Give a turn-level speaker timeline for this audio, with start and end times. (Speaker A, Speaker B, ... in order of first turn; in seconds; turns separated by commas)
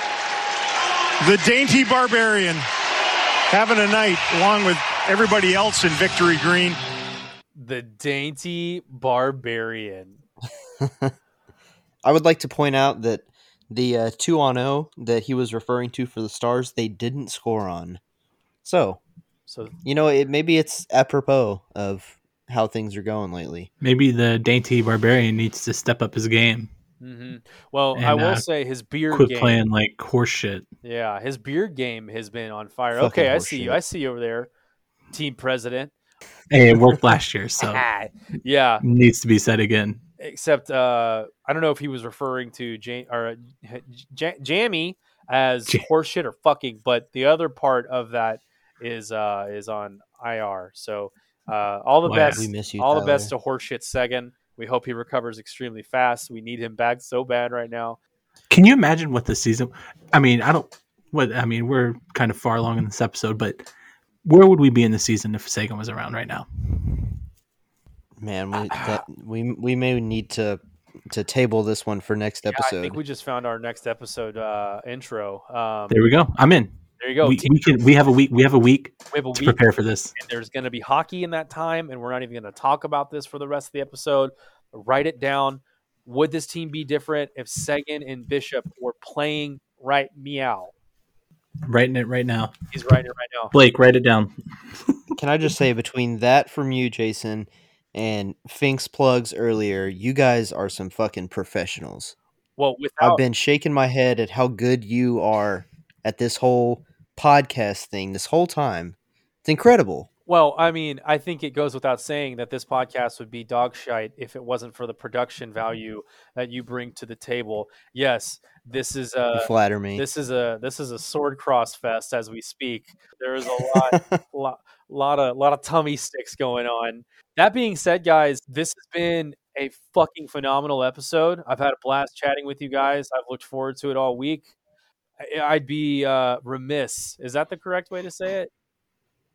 Speaker A: 1.2-2.7, Speaker A: 3.5-6.8, Speaker B: 7.5-10.2, Speaker C: 10.8-11.2, Speaker C: 12.0-18.0, Speaker C: 18.6-19.0, Speaker B: 19.5-19.7, Speaker C: 19.8-23.7, Speaker D: 23.8-26.7, Speaker B: 27.0-29.6, Speaker D: 27.9-28.4, Speaker D: 29.1-30.7, Speaker B: 30.8-34.5, Speaker C: 32.9-33.8, Speaker B: 35.1-35.9, Speaker D: 36.5-37.8, Speaker B: 37.6-38.8, Speaker D: 38.8-40.0, Speaker B: 40.2-58.0, Speaker D: 52.1-52.5, Speaker C: 52.3-53.3, Speaker D: 58.5-63.7, Speaker D: 64.2-67.1, Speaker C: 68.2-73.0, Speaker B: 68.7-69.0, Speaker B: 72.5-76.0, Speaker D: 75.9-80.1, Speaker B: 77.0-77.5, Speaker B: 79.1-79.6, Speaker B: 80.2-90.7, Speaker D: 91.7-92.5, Speaker B: 92.7-93.5, Speaker D: 93.5-94.3, Speaker C: 95.2-102.2, Speaker B: 102.6-103.2, Speaker C: 103.0-110.1, Speaker B: 110.3-134.5, Speaker C: 119.3-120.0, Speaker C: 123.7-124.2, Speaker B: 135.2-138.5